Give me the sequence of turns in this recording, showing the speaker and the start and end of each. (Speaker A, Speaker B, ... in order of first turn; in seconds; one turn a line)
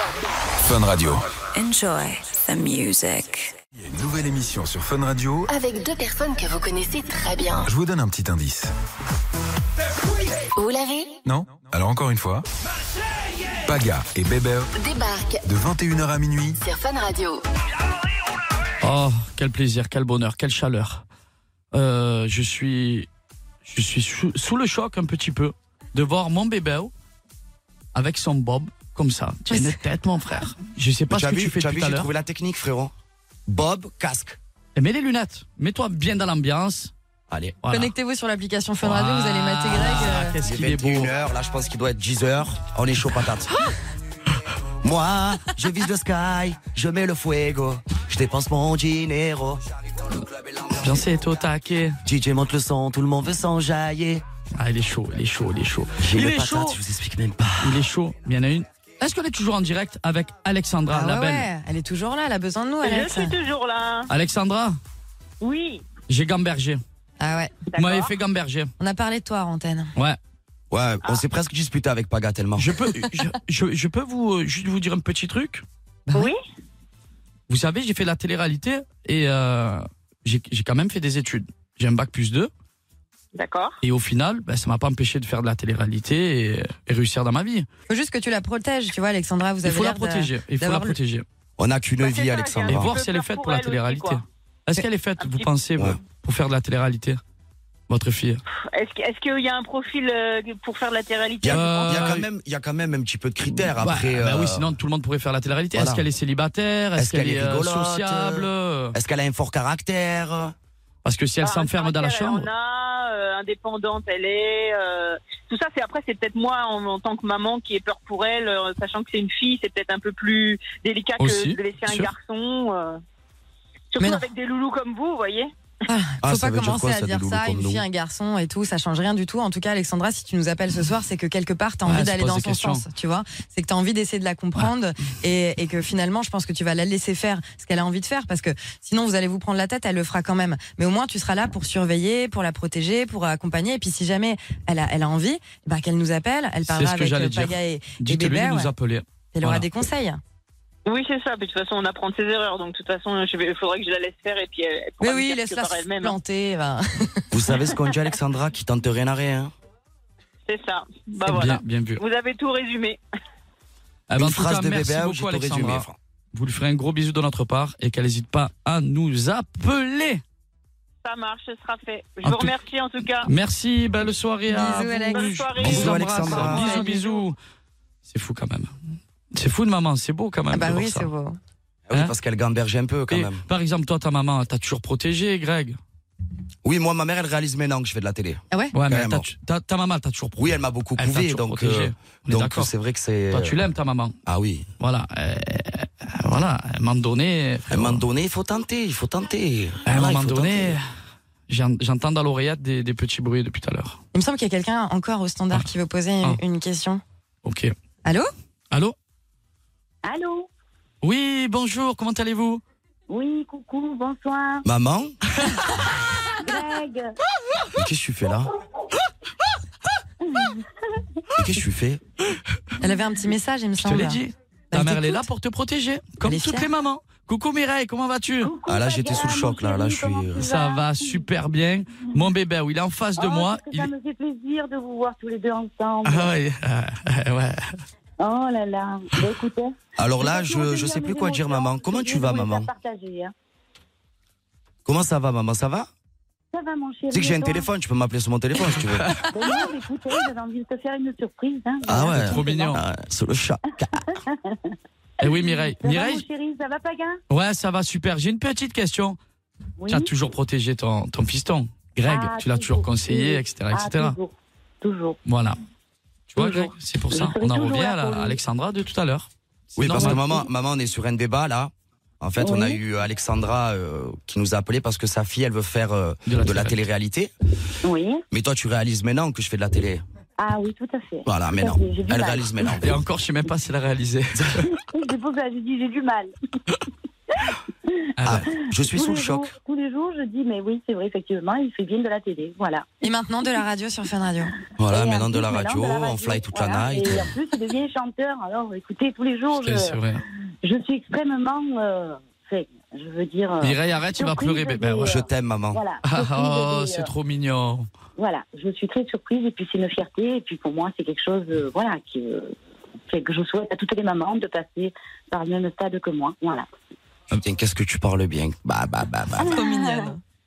Speaker A: 0.7-1.2
Speaker B: 1.6-3.5
Speaker A: 3.9-5.5
Speaker C: 5.5-7.7
Speaker A: 7.6-8.7
Speaker C: 10.6-11.2
Speaker A: 11.3-12.5
Speaker A: 13.7-14.7
Speaker C: 14.7-15.5
Speaker A: 15.5-16.6
Speaker C: 16.6-17.4
Speaker D: 18.8-21.1
Speaker D: 21.7-23.1
Speaker D: 23.7-26.9
Speaker D: 27.9-32.1
Speaker E: 29.5-29.8
Speaker F: 31.1-32.9
Speaker F: 33.5-34.4
Speaker D: 34.8-36.9
Speaker F: 37.3-37.6
Speaker D: 37.6-37.9
Speaker E: 37.7-40.4
Speaker D: 38.8-41.1
Speaker F: 40.5-43.6
Speaker F: 44.8-49.6
Speaker D: 50.8-52.0
Speaker F: 52.0-54.2
Speaker D: 54.6-56.8
Speaker F: 56.0-57.8
Speaker D: 57.6-61.5
Speaker E: 60.9-63.4
Speaker G: 62.8-64.1
Speaker D: 64.1-64.8
Speaker G: 65.4-65.9
Speaker D: 66.1-66.8
Speaker E: 67.2-67.5
Speaker G: 67.7-68.1
Speaker D: 67.8-68.7
Speaker E: 68.8-69.9
Speaker F: 70.7-72.7
Speaker D: 72.6-75.6
Speaker E: 76.1-76.3
Speaker D: 77.5-82.5
Speaker G: 83.3-83.8
Speaker D: 83.8-87.7
Speaker E: 87.9-91.0
Speaker D: 89.6-91.2
Speaker F: 91.6-92.9
Speaker G: 92.0-94.2
Speaker D: 92.7-97.2
Speaker G: 95.2-95.5
Speaker D: 97.9-98.4
Speaker G: 98.7-102.1
Speaker F: 101.4-104.7
Speaker D: 101.5-102.3
Speaker D: 103.7-109.0
Speaker F: 105.7-106.1
Speaker F: 107.0-110.5
Speaker D: 111.0-112.5
Speaker G: 111.4-123.0
Speaker D: 121.2-122.1
Speaker G: 123.9-125.5
Speaker E: 125.9-148.7
Speaker F: 126.2-127.8
Speaker D: 131.9-132.8
Speaker D: 146.7-149.7
Speaker E: 149.3-150.2
Speaker G: 150.9-156.2
Speaker E: 155.0-157.3
Speaker F: 157.3-159.5
Speaker G: 160.5-163.0
Speaker D: 161.2-162.0
Speaker D: 164.1-170.2
Speaker F: 164.2-166.0
Speaker G: 171.0-173.3
Speaker D: 172.2-172.6
Speaker D: 173.2-177.4
Speaker E: 174.5-175.3
Speaker G: 175.1-177.3
Speaker F: 175.6-176.7
Speaker E: 176.2-176.9
Speaker D: 178.0-178.7
Speaker D: 179.3-181.1
Speaker E: 180.5-181.4
Speaker F: 181.9-183.4
Speaker D: 183.1-185.8
Speaker F: 186.6-189.3
Speaker D: 188.7-192.7
Speaker F: 190.4-193.6
Speaker D: 193.3-194.2
Speaker F: 194.3-194.7
Speaker D: 194.8-198.1
Speaker F: 197.7-200.8
Speaker D: 199.9-200.8
Speaker D: 201.5-204.0
Speaker E: 204.1-207.0
Speaker D: 207.4-207.7
Speaker H: 210.0-210.5
Speaker D: 211.0-212.6
Speaker H: 213.1-214.7
Speaker F: 214.7-215.2
Speaker H: 216.3-217.2
Speaker F: 217.8-218.5
Speaker H: 220.3-220.6
Speaker F: 221.4-222.0
Speaker E: 222.8-225.2
Speaker D: 223.8-228.5
Speaker E: 226.2-226.7
Speaker H: 228.4-231.3
Speaker F: 228.7-230.5
Speaker D: 230.4-233.9
Speaker H: 233.2-236.3
Speaker D: 236.0-237.6
Speaker H: 238.2-243.3
Speaker F: 240.0-242.7
Speaker F: 244.8-245.9
Speaker H: 246.5-247.7
Speaker F: 247.1-249.1
Speaker D: 248.7-249.4
Speaker H: 249.2-252.8
Speaker F: 251.9-254.1
Speaker D: 252.0-252.8
Speaker H: 254.0-257.2
Speaker D: 255.2-256.2
Speaker D: 257.3-259.2
Speaker H: 259.8-260.1
Speaker D: 259.9-264.2
Speaker H: 262.1-265.2
Speaker D: 265.3-265.6
Speaker D: 266.3-270.2
Speaker H: 266.4-268.4
Speaker F: 269.8-277.3
Speaker H: 269.9-270.5
Speaker H: 272.4-272.8
Speaker D: 276.3-276.8
Speaker H: 277.8-278.2
Speaker F: 278.3-280.0
Speaker H: 280.4-282.7
Speaker F: 281.3-283.0
Speaker D: 282.8-284.7
Speaker H: 284.6-286.3
Speaker H: 287.5-292.9
Speaker D: 288.2-288.5
Speaker F: 288.2-289.5
Speaker E: 293.0-294.6
Speaker F: 294.8-297.3
Speaker H: 294.9-300.0
Speaker D: 299.6-300.2
Speaker H: 300.6-307.1
Speaker D: 303.6-305.2
Speaker F: 305.1-305.8
Speaker D: 306.1-307.9
Speaker H: 308.2-312.5
Speaker H: 313.1-316.7
Speaker F: 317.3-319.7
Speaker H: 319.4-320.1
Speaker E: 319.5-320.2